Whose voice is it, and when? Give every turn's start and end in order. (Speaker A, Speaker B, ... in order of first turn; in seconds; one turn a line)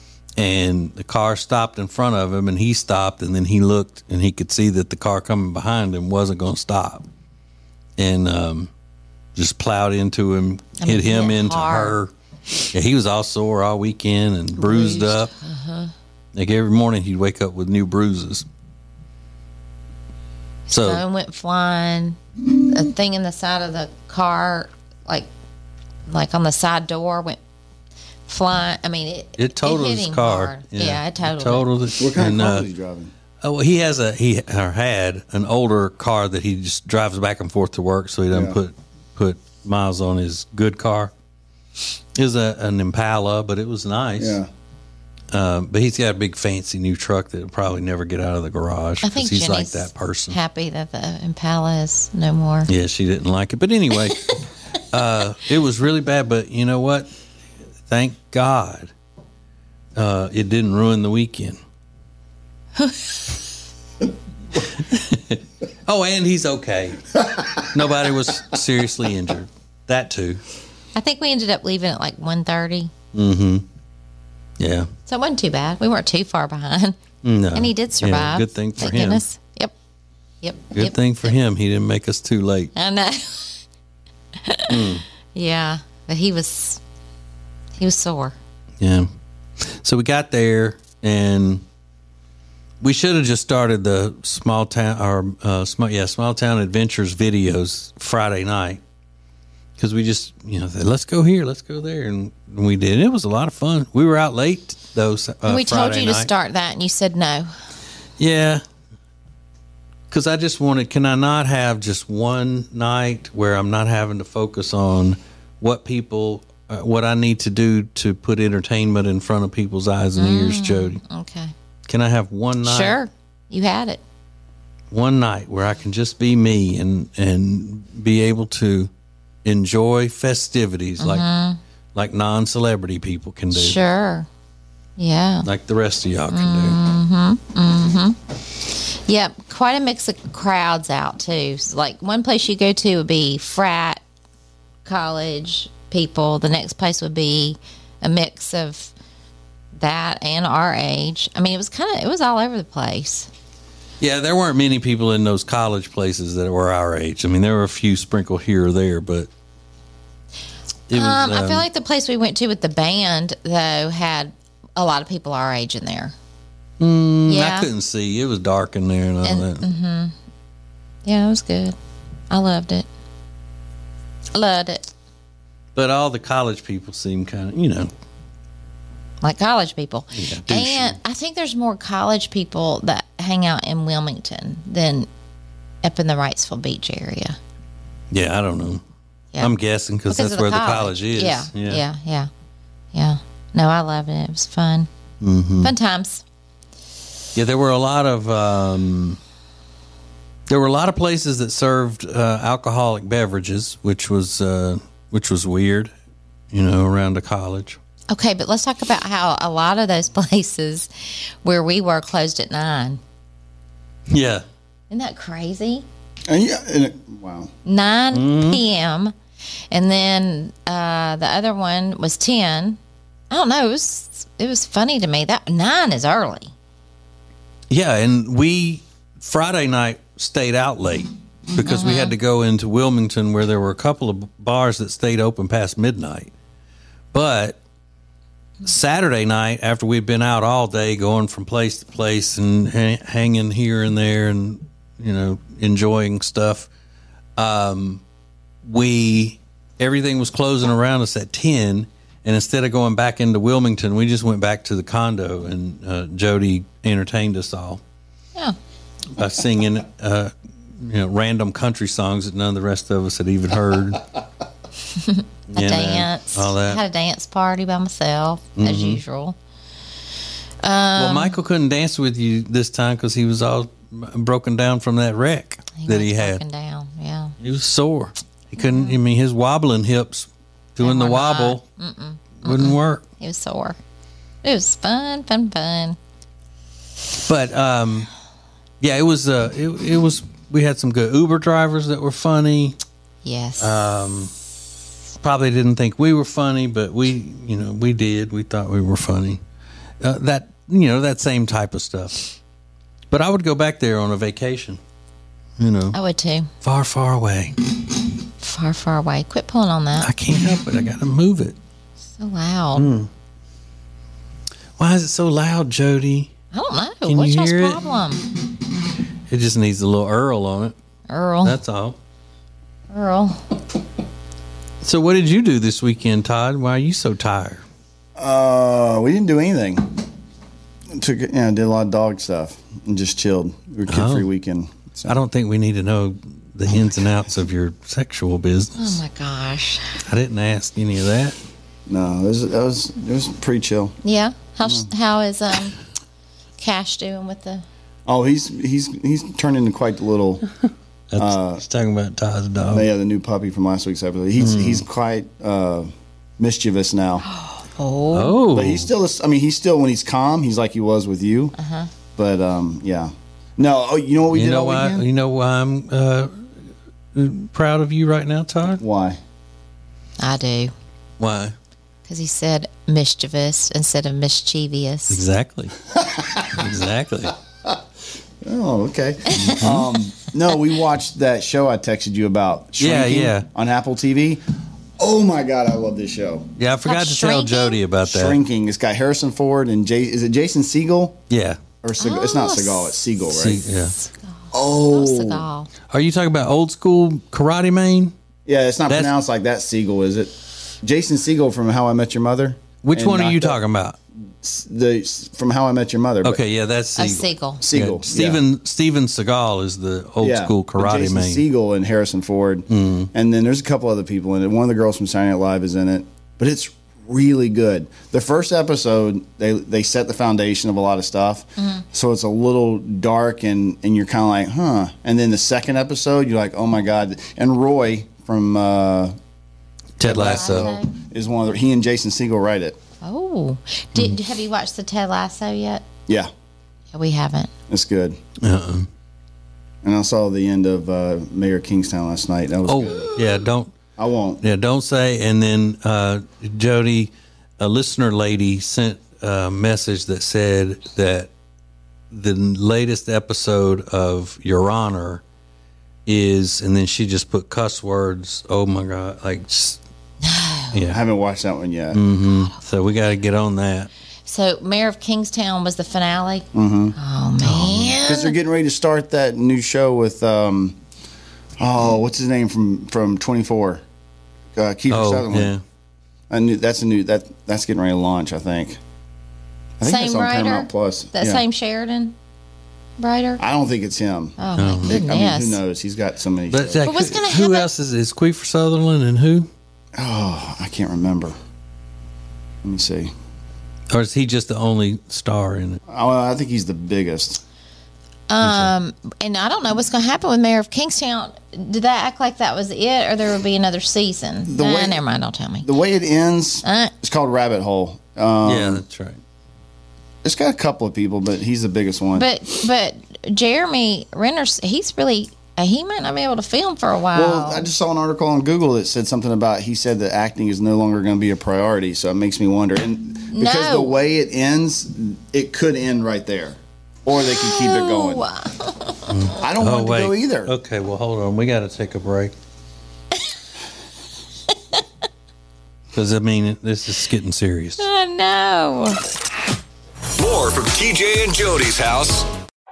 Speaker A: 0.4-7.1
Speaker A: 8.0-8.7
Speaker A: 9.4-12.1
Speaker B: 10.8-12.0
Speaker A: 12.7-15.3
Speaker B: 14.6-15.9
Speaker A: 16.3-18.4
Speaker B: 20.7-25.3
Speaker A: 20.7-21.0
Speaker B: 26.1-27.4
Speaker B: 28.3-31.7
Speaker A: 29.4-32.6
Speaker C: 32.0-33.1
Speaker A: 33.4-41.1
Speaker C: 38.3-38.6
Speaker A: 42.1-44.4
Speaker C: 44.2-44.5
Speaker A: 45.3-50.4
Speaker B: 49.0-52.7
Speaker A: 52.7-54.4
Speaker A: 54.9-57.1
Speaker A: 57.9-58.9
Speaker A: 60.0-61.6
Speaker A: 64.6-70.4
Speaker B: 70.9-72.9
Speaker A: 73.1-73.6
Speaker A: 74.6-74.9
Speaker B: 75.1-77.0
Speaker A: 77.2-79.2
Speaker B: 77.5-79.7
Speaker B: 80.4-81.3
Speaker A: 80.7-82.7
Speaker B: 82.7-83.6
Speaker B: 84.4-84.8
Speaker A: 84.7-85.0
Speaker B: 85.3-86.8
Speaker B: 87.8-88.4
Speaker A: 88.8-89.1
Speaker A: 89.6-91.6
Speaker A: 92.8-98.8
Speaker A: 99.8-106.3
Speaker B: 105.4-107.5
Speaker A: 108.2-108.6
Speaker A: 110.1-121.0
Speaker B: 120.2-121.5
Speaker A: 121.9-123.0
Speaker B: 122.6-124.0
Speaker A: 124.9-128.9
Speaker A: 129.4-131.2
Speaker B: 131.0-131.6
Speaker A: 131.9-133.8
Speaker B: 133.5-134.3
Speaker B: 135.0-135.5
Speaker A: 135.4-136.8
Speaker B: 136.3-144.0
Speaker B: 144.8-148.9
Speaker B: 149.8-153.3
Speaker A: 154.0-159.3
Speaker A: 160.9-161.6
Speaker B: 160.9-166.1
Speaker A: 166.8-169.6
Speaker B: 167.3-167.7
Speaker B: 169.2-170.1
Speaker B: 171.1-171.8
Speaker B: 172.3-172.9
Speaker B: 174.3-174.9
Speaker A: 175.8-177.9
Speaker B: 179.2-185.1
Speaker A: 180.1-181.0
Speaker B: 185.8-187.4
Speaker A: 188.1-188.8
Speaker A: 189.4-191.8
Speaker B: 190.1-192.3
Speaker B: 192.9-194.9
Speaker A: 195.2-195.7
Speaker B: 195.6-196.2
Speaker A: 197.3-199.2
Speaker A: 200.5-205.9
Speaker A: 206.5-207.8
Speaker B: 208.1-213.0
Speaker A: 214.1-214.4
Speaker B: 214.9-215.8
Speaker C: 216.3-217.5
Speaker B: 217.7-219.1
Speaker A: 218.1-218.6
Speaker B: 219.7-222.8
Speaker B: 223.3-226.5
Speaker A: 227.7-236.3
Speaker B: 231.6-232.1
Speaker A: 237.1-237.6
Speaker A: 238.6-246.7
Speaker A: 247.4-248.0
Speaker A: 248.6-257.8
Speaker A: 259.1-264.1
Speaker B: 264.9-269.4
Speaker A: 265.5-266.8
Speaker A: 268.6-269.0
Speaker B: 270.6-271.3
Speaker A: 271.0-276.4
Speaker B: 275.8-277.4
Speaker A: 277.4-281.6
Speaker B: 278.6-278.9
Speaker B: 280.8-283.8
Speaker A: 282.4-283.0
Speaker B: 284.4-286.0
Speaker A: 287.2-288.1
Speaker A: 288.8-292.8
Speaker B: 293.2-293.7
Speaker A: 293.6-294.3
Speaker A: 295.2-299.4
Speaker A: 300.0-302.3
Speaker A: 303.1-304.8
Speaker A: 305.6-306.0
Speaker B: 305.9-306.5
Speaker A: 306.6-307.6
Speaker B: 308.4-310.1
Speaker A: 310.0-311.6
Speaker B: 312.2-312.9
Speaker A: 312.8-313.1
Speaker A: 314.8-316.3
Speaker B: 316.5-318.2
Speaker A: 317.1-317.8
Speaker A: 319.3-320.7
Speaker B: 321.1-321.6
Speaker A: 321.4-322.0
Speaker B: 322.9-323.4
Speaker A: 324.8-327.6
Speaker C: 328.2-330.0
Speaker C: 330.9-335.2
Speaker A: 333.9-334.3
Speaker A: 335.1-339.0
Speaker B: 338.8-340.0
Speaker A: 340.1-341.4
Speaker C: 341.9-343.9
Speaker B: 344.0-345.8
Speaker B: 346.6-347.6
Speaker C: 348.1-350.4
Speaker A: 351.1-352.9
Speaker C: 351.2-351.6
Speaker C: 352.7-357.2
Speaker A: 354.4-354.8
Speaker B: 357.3-358.4
Speaker A: 358.1-358.9
Speaker C: 358.5-361.6
Speaker B: 361.6-361.9
Speaker C: 362.2-365.1
Speaker A: 364.3-366.5
Speaker A: 367.1-368.8
Speaker C: 368.8-369.2
Speaker B: 370.2-370.7
Speaker A: 371.2-371.6
Speaker B: 372.1-375.2
Speaker A: 375.1-375.8
Speaker C: 376.1-376.5
Speaker A: 376.5-377.4
Speaker C: 378.4-384.4
Speaker A: 379.4-379.9
Speaker A: 382.8-383.5
Speaker C: 385.0-386.5
Speaker A: 386.6-388.4
Speaker B: 386.9-387.8
Speaker C: 388.1-391.2
Speaker A: 391.3-391.6
Speaker C: 391.8-393.6
Speaker B: 392.0-393.0
Speaker A: 393.3-393.9
Speaker B: 393.6-394.2
Speaker C: 394.5-395.4
Speaker B: 394.9-395.7
Speaker A: 395.9-398.1
Speaker C: 398.4-403.6
Speaker A: 402.8-404.0
Speaker C: 404.4-406.4
Speaker A: 406.2-411.4
Speaker B: 407.0-407.6
Speaker C: 407.6-408.4
Speaker C: 410.2-429.1
Speaker A: 412.7-413.1
Speaker B: 421.6-421.9
Speaker A: 430.0-430.7
Speaker C: 430.0-432.8
Speaker B: 430.0-430.9
Speaker B: 433.0-435.9
Speaker B: 436.9-437.5
Speaker C: 437.7-438.2
Speaker A: 438.4-438.9
Speaker C: 439.8-443.1
Speaker A: 442.7-443.7
Speaker C: 444.0-444.4
Speaker A: 444.4-451.3
Speaker A: 452.1-455.2
Speaker A: 456.1-459.8
Speaker B: 460.2-460.7
Speaker A: 460.7-461.0
Speaker C: 460.9-462.0
Speaker A: 461.9-463.9
Speaker B: 462.2-462.6
Speaker B: 464.2-468.4
Speaker C: 466.5-466.9
Speaker A: 467.4-467.9
Speaker C: 468.0-470.8
Speaker C: 471.6-473.8
Speaker C: 474.6-475.5
Speaker A: 474.9-475.6
Speaker C: 476.3-478.8
Speaker C: 479.8-481.4
Speaker B: 479.8-482.1
Speaker B: 483.0-483.4
Speaker C: 483.4-486.9
Speaker B: 484.4-485.6
Speaker A: 484.6-484.9
Speaker A: 486.5-489.5
Speaker B: 486.8-487.7
Speaker C: 489.9-491.4
Speaker C: 492.6-493.1
Speaker A: 493.9-495.8
Speaker C: 495.9-497.4
Speaker B: 498.3-505.7
Speaker A: 498.4-498.7
Speaker C: 504.5-505.0
Speaker C: 505.6-508.8
Speaker B: 506.6-506.9
Speaker A: 508.4-509.2
Speaker C: 510.2-512.3
Speaker B: 512.1-517.6
Speaker C: 517.1-528.3
Speaker B: 523.3-524.0
Speaker B: 527.4-529.3
Speaker A: 529.1-532.3
Speaker C: 529.4-530.5
Speaker A: 535.9-537.9
Speaker B: 537.8-539.0
Speaker D: 540.2-542.3